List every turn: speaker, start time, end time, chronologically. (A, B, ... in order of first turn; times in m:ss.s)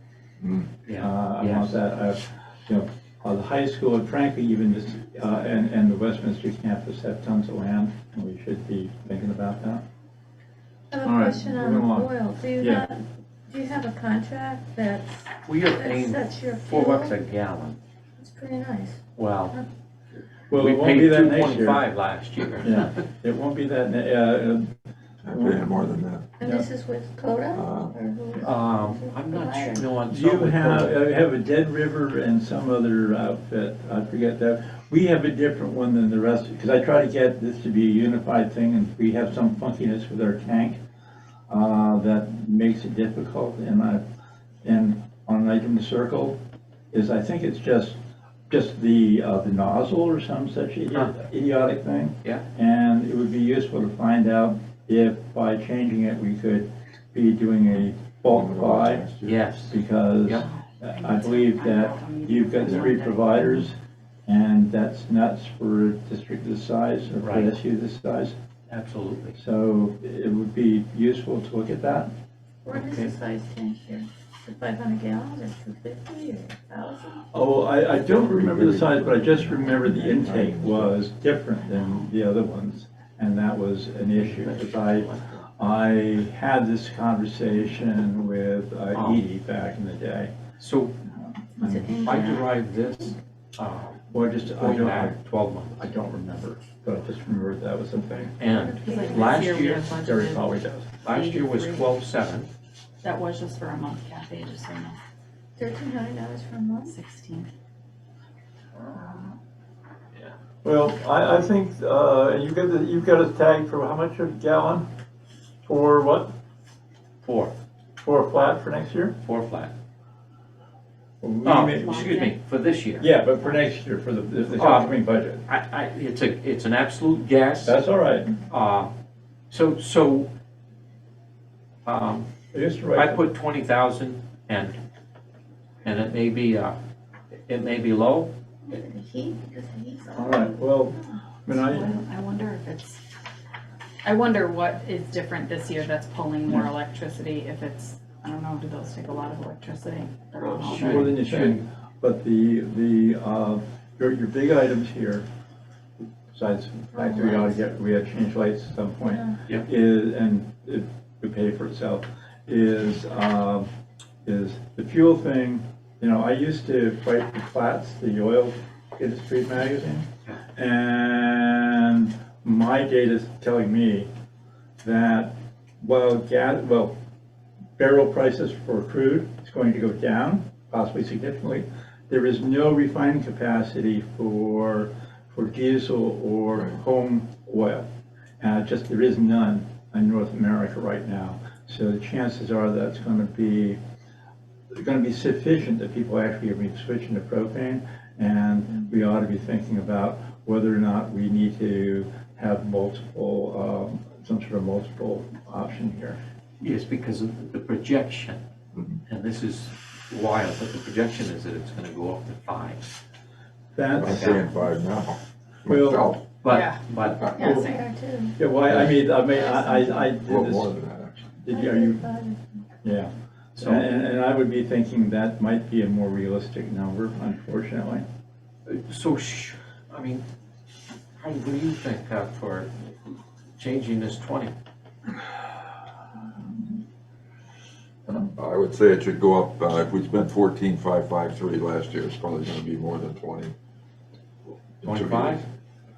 0:00.4-0:00.6 A
0:00.8-0:01.8 B
0:01.0-0:09.8 C
0:10.9-0:17.1 D
0:11.0-0:12.8 C
0:15.4-0:17.8 B
0:18.2-0:19.0 D
0:19.2-0:19.6 B
0:20.5-0:21.8 C
0:20.5-0:22.9 B
0:22.6-0:24.7 C
0:25.2-0:26.3 A
0:25.3-0:25.8 C
0:26.4-0:29.8 D
0:27.5-0:27.9 A
0:28.4-0:31.0 B
0:30.1-0:40.8 C
0:41.5-0:44.0 C
0:44.6-0:46.4 C
0:46.9-0:48.0 C
0:48.5-0:59.0 C
0:58.3-0:59.4 A
0:59.2-1:00.5 B
0:59.7-1:08.3 C
1:00.8-1:03.6 E
1:07.2-1:07.5 B
1:08.7-1:09.4 B
1:09.4-1:12.1 C
1:12.6-1:17.2 D
1:12.7-1:13.1 B
1:17.3-1:30.3 C
1:17.9-1:21.0 A
1:24.2-1:25.4 B
1:28.9-1:29.2 B
1:30.6-1:30.9 B
1:31.6-1:32.0 C
1:31.6-1:32.5 D
1:32.0-1:35.9 B
1:34.1-1:35.2 C
1:35.7-1:38.3 C
1:38.4-1:39.9 B
1:38.4-1:39.6 D
1:38.8-1:40.5 E
1:39.8-1:40.9 C
1:41.0-1:42.5 B
1:41.0-1:42.0 E
1:43.0-1:45.0 E
1:45.6-1:46.9 D
1:46.9-1:47.5 E
1:48.8-1:49.3 C
1:50.6-1:54.8 C
1:55.6-1:56.3 C
1:57.2-1:57.5 B
1:58.0-1:59.1 C
1:59.2-1:59.7 B
2:01.2-2:02.1 C
2:01.4-2:03.1 B
2:01.7-2:02.4 E
2:03.0-2:05.4 C
2:04.6-2:07.8 B
2:07.6-2:08.3 C
2:08.5-2:08.9 B
2:09.5-2:10.3 B
2:11.8-2:12.2 B
2:12.5-2:13.2 C
2:12.9-2:14.8 B
2:15.8-2:16.8 B
2:17.5-2:18.3 B
2:18.6-2:21.0 D
2:20.1-2:22.0 C
2:21.5-2:23.0 E
2:24.0-2:31.2 E
2:30.4-2:31.6 B
2:30.7-2:35.2 C
2:36.3-2:43.7 C
2:36.9-2:37.6 D
2:44.2-2:54.1 C
2:54.8-2:56.9 C
2:57.8-3:07.9 C
3:08.4-3:13.8 C
3:14.7-3:26.2 C
3:26.6-3:28.4 B
3:29.0-3:32.8 B
3:33.7-3:34.3 C
3:34.0-3:34.5 B
3:34.0-3:36.2 A
3:35.6-3:36.1 C
3:36.4-3:37.3 B
3:36.5-3:36.8 E
3:37.4-3:38.4 D
3:37.4-3:37.7 C
3:37.4-3:37.8 E
3:38.4-3:42.0 C
3:39.3-3:40.1 D
3:40.2-3:41.2 A
3:41.5-3:42.6 D
3:42.8-3:48.0 C
3:43.6-3:43.9 B
3:48.6-3:50.2 B
3:51.2-3:52.8 B
3:53.6-3:54.5 B
3:58.4-4:03.5 A
4:04.8-4:05.4 B
4:04.8-4:05.4 A